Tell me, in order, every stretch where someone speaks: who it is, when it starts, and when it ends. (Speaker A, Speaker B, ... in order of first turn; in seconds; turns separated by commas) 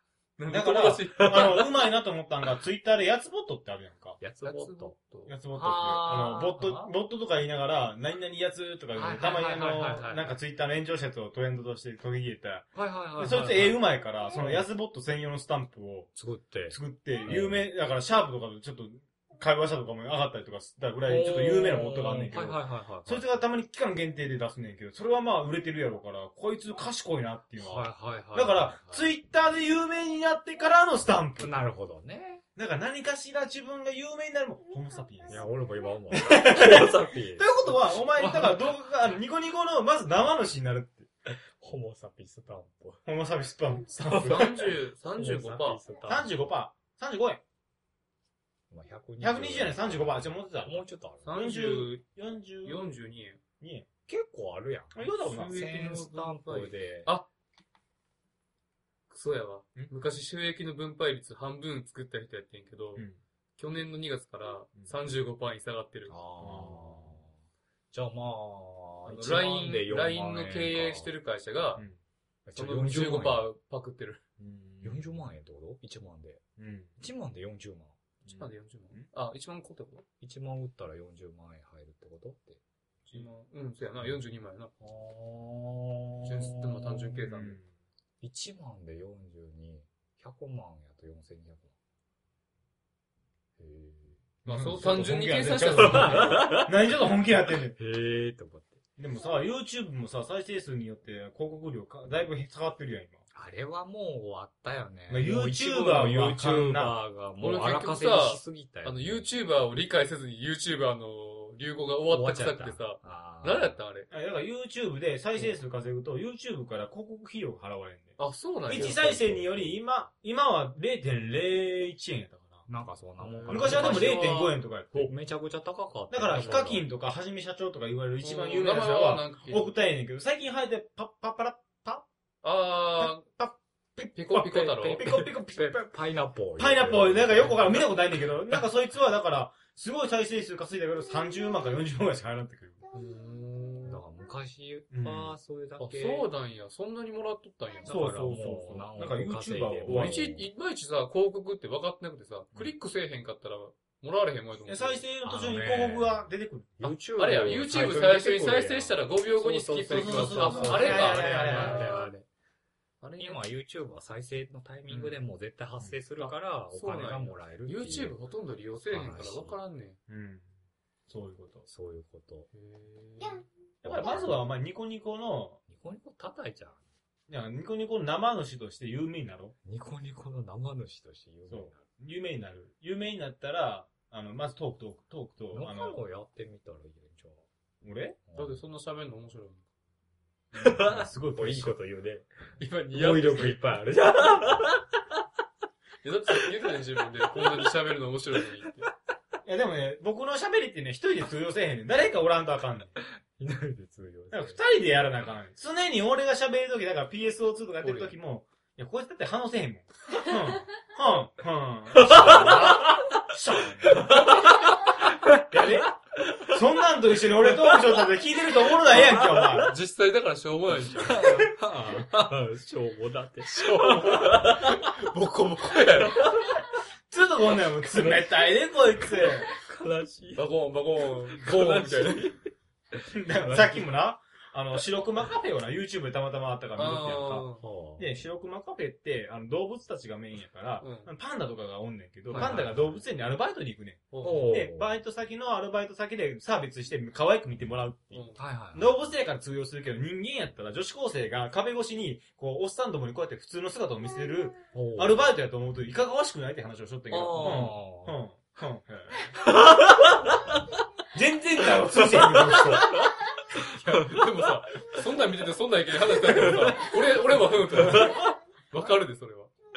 Speaker A: 0.4-1.6, Speaker B: 0.5-4.2, Speaker C: 1.2-1.7, Speaker C: 4.2-5.0, Speaker A: 4.4-5.3, Speaker B: 5.3-16.1, Speaker C: 5.5-6.9, Speaker C: 8.9-10.3, Speaker C: 12.7-13.8, Speaker C: 14.3-14.6, Speaker C: 16.1-17.7, Speaker B: 16.7-31.6, Speaker C: 21.0-23.3, Speaker C: 27.6-29.1, Speaker C: 31.4-32.4, Speaker B: 32.5-35.5, Speaker C: 35.3-38.9, Speaker B: 36.1-41.1, Speaker C: 41.6-43.0, Speaker B: 43.0-44.6, Speaker C: 44.0-46.3, Speaker A: 44.1-45.8, Speaker B: 46.0-47.4, Speaker C: 48.7-51.4, Speaker B: 49.2-52.8, Speaker A: 51.2-52.0, Speaker A: 52.6-53.4, Speaker B: 53.6-53.9, Speaker C: 54.1-57.1, Speaker B: 54.9-55.6, Speaker A: 55.2-57.3, Speaker A: 59.1-63.0, Speaker A: 63.6-66.2, Speaker C: 66.1-67.3, Speaker B: 66.4-67.2, Speaker C: 67.9-71.1, Speaker A: 69.0-71.8, Speaker C: 72.5-73.5, Speaker A: 72.5-74.2, Speaker B: 74.4-75.2, Speaker C: 74.8-76.4, Speaker B: 76.6-76.9, Speaker C: 77.0-77.9, Speaker B: 78.2-79.1, Speaker A: 78.3-80.0, Speaker C: 80.2-82.6, Speaker A: 83.1-84.7, Speaker C: 84.8-87.2, Speaker A: 86.2-87.6, Speaker B: 87.3-87.7, Speaker C: 88.2-91.7, Speaker C: 93.6-94.2, Speaker A: 94.4-96.6, Speaker B: 94.5-97.8, Speaker C: 95.7-96.9, Speaker C: 97.5-98.8, Speaker B: 99.0-103.2, Speaker C: 103.3-109.3, Speaker B: 105.1-107.0, Speaker A: 107.4-114.1, Speaker C: 112.1-113.8, Speaker B: 114.1-122.7, Speaker A: 118.2-119.0, Speaker C: 118.7-119.8, Speaker C: 122.7-124.3, Speaker A: 123.2-124.6, Speaker B: 123.5-125.1, Speaker C: 124.9-126.9, Speaker B: 126.1-132.1, Speaker A: 128.2-129.7, Speaker A: 132.4-133.2, Speaker B: 133.0-135.9, Speaker A: 134.1-135.0, Speaker C: 134.6-137.9, Speaker B: 136.6-142.8, Speaker A: 142.9-144.0, Speaker C: 143.8-146.3, Speaker B: 144.9-145.3, Speaker A: 145.8-148.5, Speaker C: 147.8-150.4, Speaker B: 147.9-150.4, Speaker A: 149.8-155.0, Speaker B: 154.7-156.8, Speaker C: 155.2-162.2, Speaker A: 157.1-162.2, Speaker B: 159.9-162.0, Speaker A: 163.0-163.4, Speaker C: 163.2-168.2, Speaker A: 164.9-165.2, Speaker A: 166.2-170.0, Speaker C: 168.8-169.6, Speaker B: 170.1-170.5, Speaker B: 171.1-171.7, Speaker C: 171.7-172.5, Speaker A: 172.5-173.4, Speaker B: 173.8-175.6, Speaker C: 173.8-174.4, Speaker C: 175.7-176.8, Speaker B: 177.3-179.5, Speaker C: 179.6-181.8, Speaker B: 181.5-186.0, Speaker C: 185.5-187.4, Speaker B: 187.8-188.2, Speaker C: 188.3-188.6, Speaker A: 188.3-189.6, Speaker B: 190.5-191.8, Speaker C: 190.5-192.3, Speaker A: 192.6-193.6, Speaker C: 192.9-195.2, Speaker A: 196.0-198.9, Speaker C: 196.3-197.7, Speaker C: 198.3-198.9, Speaker B: 199.4-203.0, Speaker C: 203.0-204.6, Speaker B: 204.3-214.3, Speaker A: 207.8-208.1, Speaker C: 211.9-213.2, Speaker C: 213.8-216.6, Speaker B: 215.4-219.7, Speaker C: 217.2-219.8, Speaker A: 219.6-221.4, Speaker C: 220.8-225.1, Speaker A: 223.4-226.4, Speaker C: 225.7-226.7, Speaker B: 227.1-229.5, Speaker C: 227.7-230.5, Speaker A: 230.3-232.3, Speaker C: 231.3-233.9, Speaker B: 233.1-259.3, Speaker A: 236.8-237.6, Speaker C: 237.6-238.1, Speaker A: 240.8-241.1, Speaker C: 242.3-243.0, Speaker A: 242.3-242.7, Speaker A: 244.1-244.6, Speaker C: 244.2-245.0, Speaker A: 248.1-248.4, Speaker C: 248.3-248.9, Speaker C: 254.7-255.3, Speaker C: 257.1-258.2, Speaker A: 257.2-257.7, Speaker C: 259.3-260.6, Speaker B: 261.1-263.0, Speaker C: 261.6-265.3, Speaker A: 263.5-269.5, Speaker C: 266.0-268.3